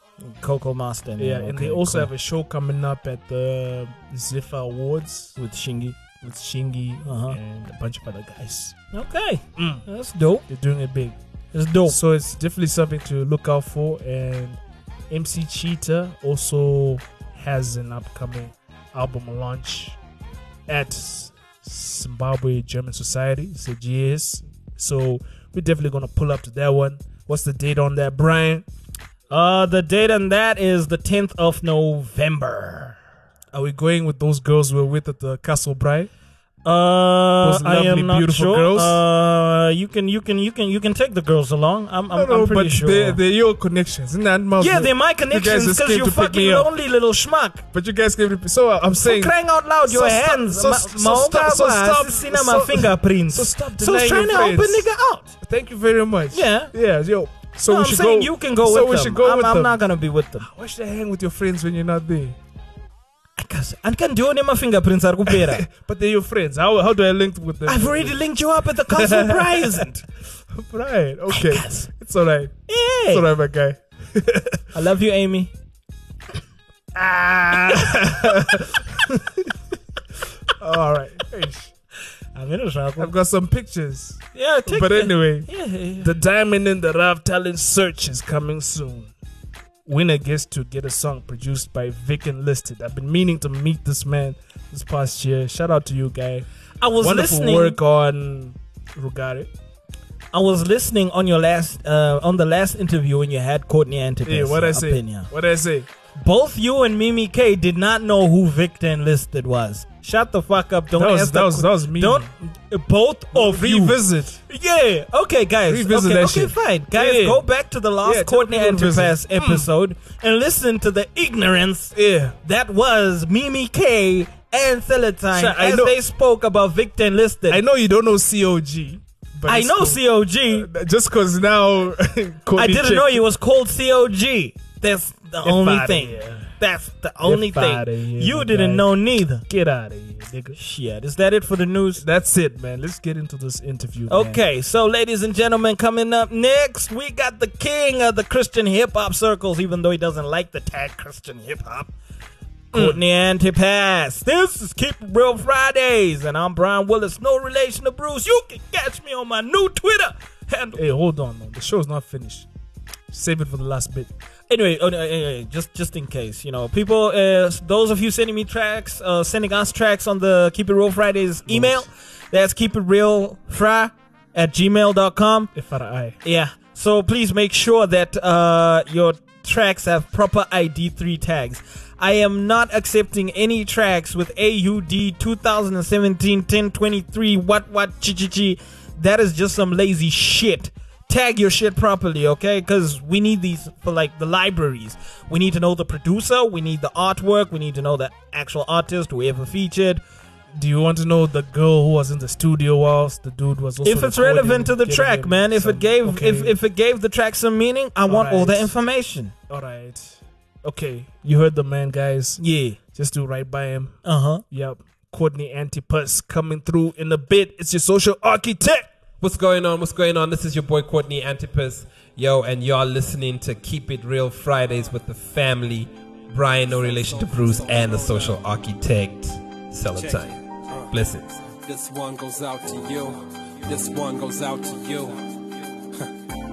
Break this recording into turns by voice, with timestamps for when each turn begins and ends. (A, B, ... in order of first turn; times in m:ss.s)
0:00.2-0:02.1 A
0:01.2-0:05.3 B
0:05.4-0:06.0 A
0:06.2-0:08.8 B
0:07.0-0:07.4 A
0:08.9-0:10.5 A
0:09.6-0:09.8 B
0:10.5-0:11.2 B
0:11.5-0:12.0 A
0:11.8-0:14.6 B
0:15.1-0:20.0 B
0:20.7-0:28.6 B
0:29.3-0:33.0 A
0:33.5-0:36.1 B
0:36.6-0:43.2 A
0:37.4-0:39.0 B
0:42.1-0:46.7 B
0:44.6-0:47.6 A
0:47.7-0:49.3 B
0:49.0-0:55.4 A
0:49.8-0:54.8 B
0:55.4-0:59.8 B
0:56.3-0:56.7 A
0:57.7-1:00.5 A
1:00.4-1:02.4 B
1:03.4-1:05.6 A
1:05.3-1:08.2 B
1:07.6-1:10.0 A
1:08.9-1:09.8 B
1:10.5-1:14.6 B
1:11.3-1:11.8 A
1:12.7-1:13.2 A
1:14.7-1:15.5 A
1:17.0-1:19.5 B
1:17.5-1:18.1 A
1:20.6-1:21.7 B
1:22.3-1:23.1 A
1:23.0-1:25.5 B
1:24.3-1:26.1 A
1:26.0-1:29.1 B
1:29.8-1:36.5 B
1:36.8-1:37.8 A
1:37.0-1:39.5 B
1:40.3-1:45.3 A
1:44.2-1:45.9 B
1:46.2-2:07.6 A
1:51.0-1:52.3 B
1:53.3-1:54.4 B
1:55.7-1:57.4 B
1:58.0-1:59.7 B
2:01.9-2:02.3 B
2:05.3-2:05.9 B
2:07.5-2:13.2 B
2:09.4-2:10.7 A
2:12.6-2:19.4 A
2:15.4-2:16.5 B
2:17.2-2:20.6 B
2:20.5-2:22.0 A
2:22.0-2:24.4 B
2:24.1-2:31.9 A
2:32.7-2:33.0 B
2:32.7-2:40.8 A
2:40.7-2:42.5 B
2:43.1-2:44.1 B
2:44.5-2:55.5 A
2:51.5-2:51.8 B
2:55.5-2:56.2 B
2:56.2-3:20.0 A
3:20.6-3:26.5 B
3:23.8-3:29.3 A
3:28.1-3:28.7 B
3:29.5-3:34.0 B
3:32.4-3:32.8 A
3:34.0-3:34.4 A
3:34.5-3:38.9 B
3:39.2-3:50.4 C
3:46.6-3:48.4 D
3:49.9-3:50.9 D
3:50.9-3:51.4 C
3:51.5-3:55.4 D